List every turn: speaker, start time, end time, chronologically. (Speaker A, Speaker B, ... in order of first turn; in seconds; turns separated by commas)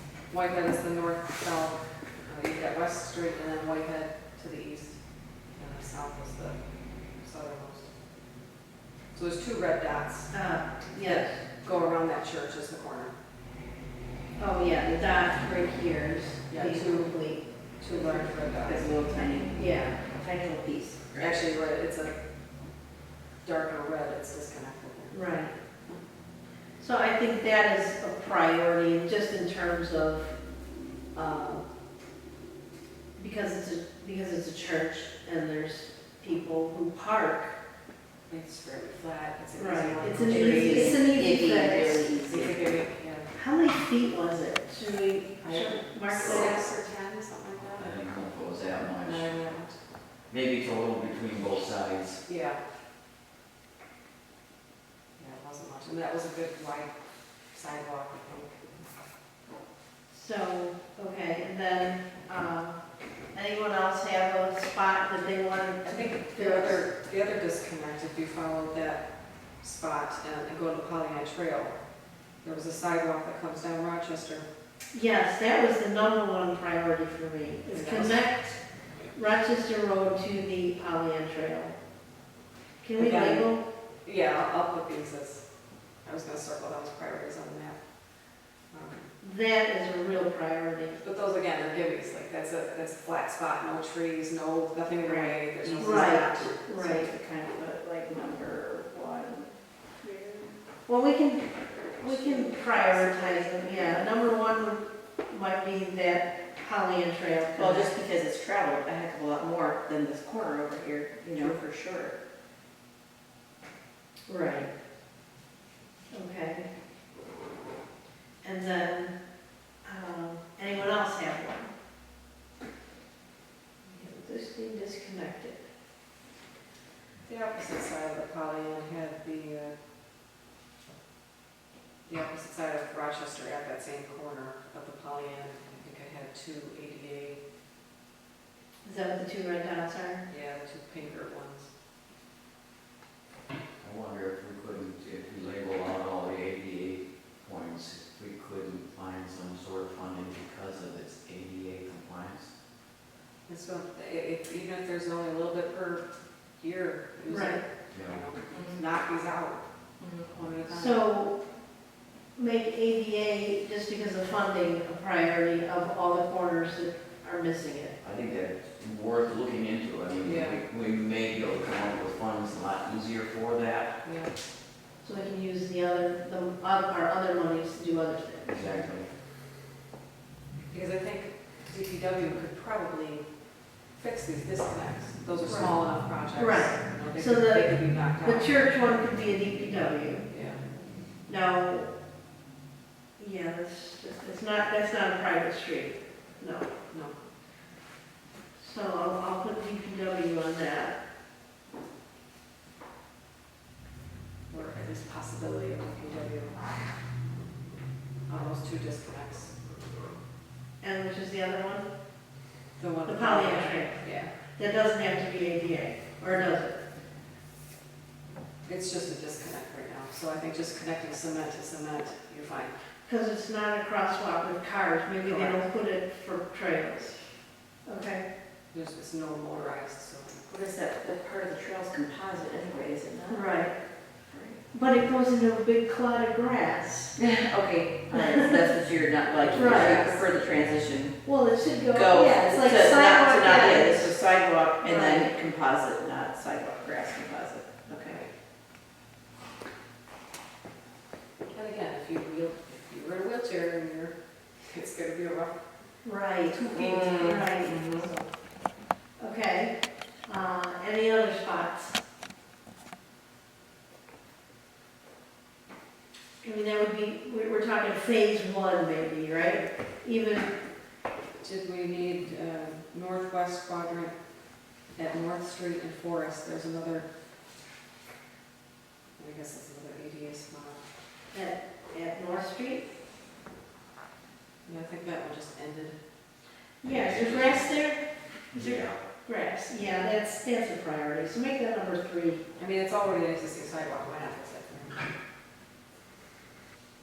Speaker A: 0.3-5.0, Speaker A: 5.5-6.6, Speaker A: 7.2-7.9, Speaker A: 9.1-10.3, Speaker B: 10.3-11.4, Speaker A: 10.9-13.1, Speaker B: 14.4-18.3, Speaker A: 16.5-17.2, Speaker A: 17.8-18.9, Speaker C: 18.6-21.4, Speaker B: 19.4-20.0, Speaker A: 21.1-22.1, Speaker A: 23.4-25.2, Speaker B: 25.1-25.5, Speaker B: 26.8-30.3, Speaker B: 31.1-31.6, Speaker B: 33.2-37.5, Speaker A: 38.3-41.0, Speaker B: 39.6-42.1, Speaker C: 40.2-42.6, Speaker A: 42.3-43.3, Speaker B: 43.3-46.6, Speaker A: 45.4-48.0, Speaker D: 46.2-46.5, Speaker D: 47.8-49.4, Speaker A: 49.0-49.8, Speaker D: 50.3-52.2, Speaker A: 52.2-52.6, Speaker A: 55.2-56.9, Speaker A: 57.5-58.8, Speaker B: 60.1-66.8, Speaker A: 65.8-69.0, Speaker A: 69.6-71.8, Speaker A: 72.4-74.5, Speaker B: 74.9-78.6, Speaker A: 77.7-79.1, Speaker B: 79.1-81.7, Speaker B: 82.8-83.6, Speaker A: 83.0-83.5, Speaker A: 84.0-85.4, Speaker A: 86.0-87.8, Speaker A: 88.7-89.1, Speaker B: 89.2-91.0, Speaker A: 91.0-96.6, Speaker B: 95.0-97.1, Speaker C: 95.6-100.5, Speaker B: 100.9-107.9, Speaker C: 102.0-104.0, Speaker C: 107.5-112.1, Speaker B: 114.3-114.7, Speaker B: 116.1-116.7, Speaker B: 118.4-119.1, Speaker B: 119.8-121.7, Speaker B: 123.9-125.6, Speaker A: 127.2-129.7, Speaker A: 132.1-137.4, Speaker B: 138.8-140.2, Speaker A: 140.3-141.7, Speaker D: 143.8-152.5, Speaker A: 153.5-156.0, Speaker A: 156.6-159.6, Speaker B: 157.3-157.6, Speaker D: 157.9-158.2, Speaker C: 158.5-158.8, Speaker C: 160.0-160.3, Speaker A: 160.2-161.0, Speaker B: 160.7-161.4, Speaker B: 162.3-167.9, Speaker D: 168.0-173.9, Speaker A: 170.2-170.6, Speaker A: 174.0-174.3, Speaker B: 175.0-178.6, Speaker D: 178.5-179.1, Speaker A: 180.7-183.2, Speaker A: 184.0-188.7, Speaker B: 185.4-190.3, Speaker A: 190.3-190.6, Speaker B: 191.3-191.9, Speaker B: 193.2-196.7, Speaker A: 196.9-197.1, Speaker B: 198.6-200.9, Speaker A: 204.5-206.6, Speaker A: 208.3-209.5, Speaker B: 210.8-211.9, Speaker A: 212.8-214.3, Speaker B: 213.0-214.0, Speaker B: 214.6-216.8, Speaker A: 218.6-222.8, Speaker B: 223.1-227.2, Speaker A: 225.2-225.6, Speaker B: 227.8-228.2, Speaker A: 228.7-230.4, Speaker C: 230.5-233.7, Speaker B: 233.3-233.7, Speaker C: 234.2-234.6, Speaker B: 234.7-237.2, Speaker C: 237.2-241.2, Speaker B: 239.5-240.2, Speaker A: 239.5-240.2, Speaker B: 241.2-244.2, Speaker C: 241.9-248.2, Speaker B: 244.8-245.3, Speaker A: 251.5-255.6, Speaker B: 256.0-258.2, Speaker A: 256.5-258.3, Speaker C: 256.6-258.1, Speaker B: 259.2-261.9, Speaker B: 266.4-270.5, Speaker A: 271.4-274.1, Speaker A: 274.9-277.1, Speaker A: 279.2-280.8, Speaker B: 281.3-282.9, Speaker A: 284.6-285.9, Speaker B: 286.8-292.4, Speaker D: 286.9-287.6, Speaker D: 288.5-289.0, Speaker A: 292.6-295.1